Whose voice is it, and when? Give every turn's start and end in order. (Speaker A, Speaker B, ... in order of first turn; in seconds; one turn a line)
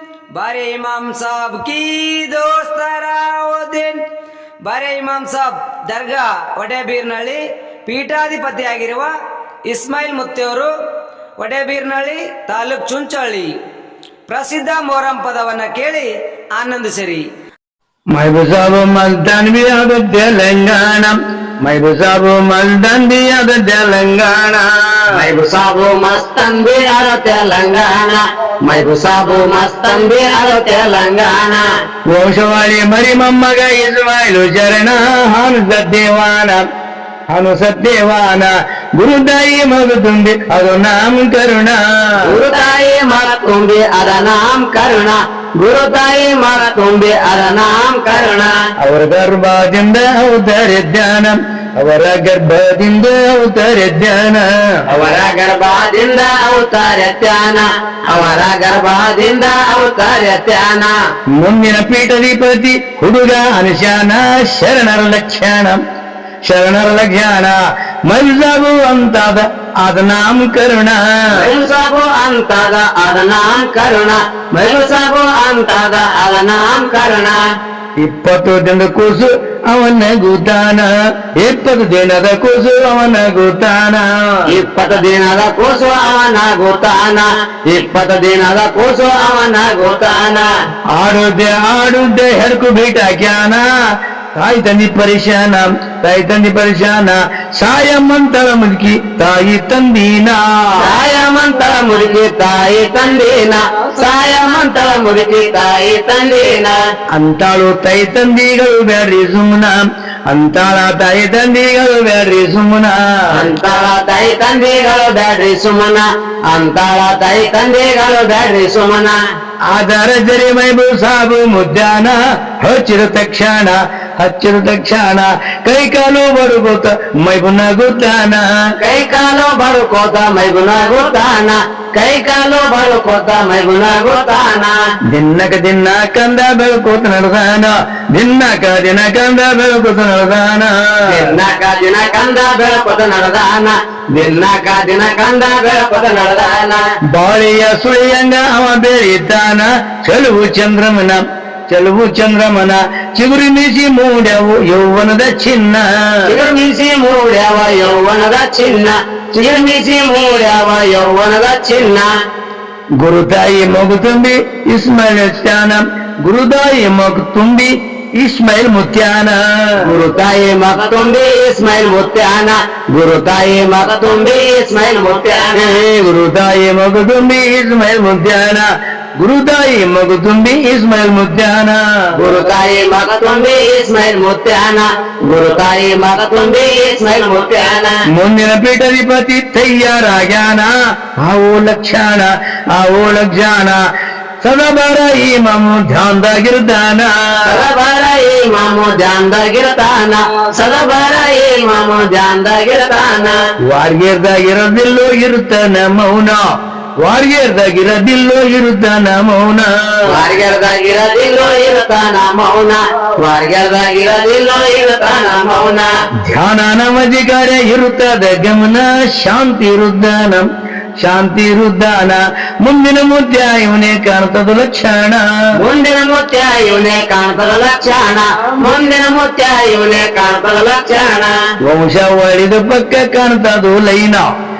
Speaker A: 0.3-4.0
Speaker A: 4.6-9.1
Speaker A: 9.7-10.7
Speaker A: 11.4-13.5
Speaker A: 14.3-17.2
Speaker B: 18.1-25.2
Speaker C: 25.1-31.6
Speaker B: 32.1-36.6
Speaker B: 37.3-42.4
Speaker C: 42.2-48.5
Speaker B: 48.8-54.6
Speaker C: 54.9-60.9
Speaker B: 61.4-65.8
Speaker B: 66.4-71.5
Speaker C: 71.3-77.4
Speaker B: 78.0-84.6
Speaker C: 84.5-90.5
Speaker B: 90.9-93.6
Speaker B: 94.3-100.9
Speaker C: 100.8-106.8
Speaker B: 107.1-113.5
Speaker C: 113.3-119.2
Speaker B: 119.7-128.5
Speaker C: 128.8-134.8
Speaker B: 135.1-141.3
Speaker C: 141.1-146.8
Speaker B: 147.1-156.4
Speaker C: 156.2-162.1
Speaker B: 163.0-170.0
Speaker C: 169.8-175.8
Speaker B: 175.6-178.7
Speaker B: 179.2-182.2
Speaker C: 182.2-187.9
Speaker B: 188.1-193.8
Speaker B: 194.4-197.7
Speaker C: 197.4-203.4
Speaker B: 203.7-206.4
Speaker B: 207.0-210.2
Speaker C: 210.1-215.9
Speaker B: 216.2-220.5
Speaker B: 221.0-225.2
Speaker C: 225.6-231.3
Speaker B: 231.6-234.2